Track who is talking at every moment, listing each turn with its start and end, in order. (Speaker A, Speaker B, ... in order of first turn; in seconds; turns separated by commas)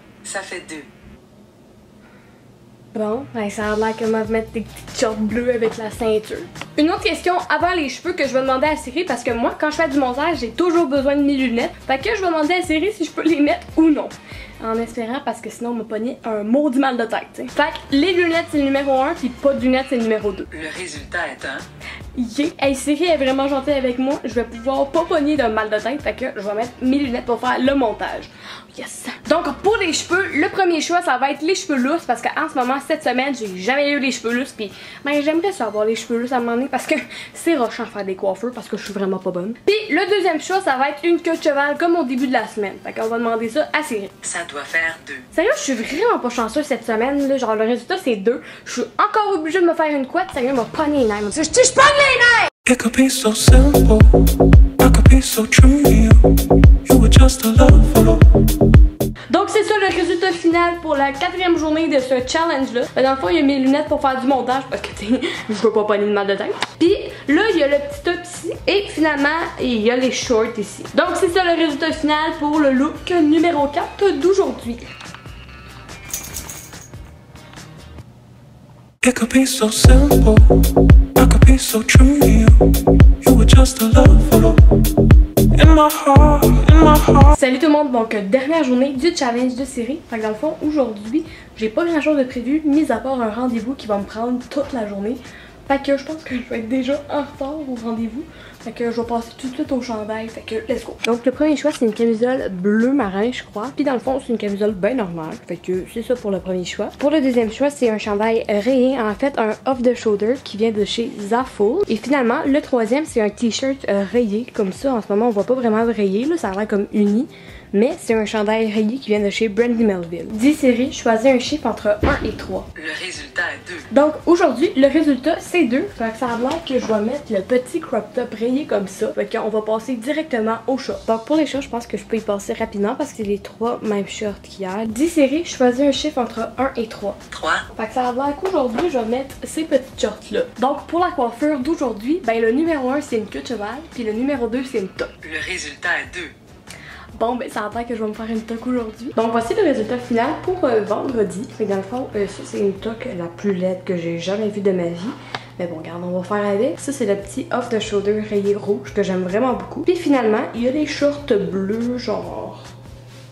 Speaker A: 0.2-0.9, Speaker B: 2.9-20.5, Speaker A: 20.5-21.6, Speaker B: 22.1-44.2, Speaker A: 44.2-45.3, Speaker B: 45.3-52.5, Speaker C: 52.6-54.2, Speaker C: 54.8-56.3, Speaker C: 56.8-58.2, Speaker B: 59.3-74.9, Speaker C: 79.0-80.6, Speaker C: 81.2-82.6, Speaker C: 83.2-84.6, Speaker C: 85.5-87.3, Speaker B: 87.3-122.7, Speaker A: 122.8-123.9, Speaker B: 123.9-137.2, Speaker A: 137.3-137.7, Speaker B: 137.7-145.2, Speaker A: 145.2-146.3, Speaker B: 147.2-162.7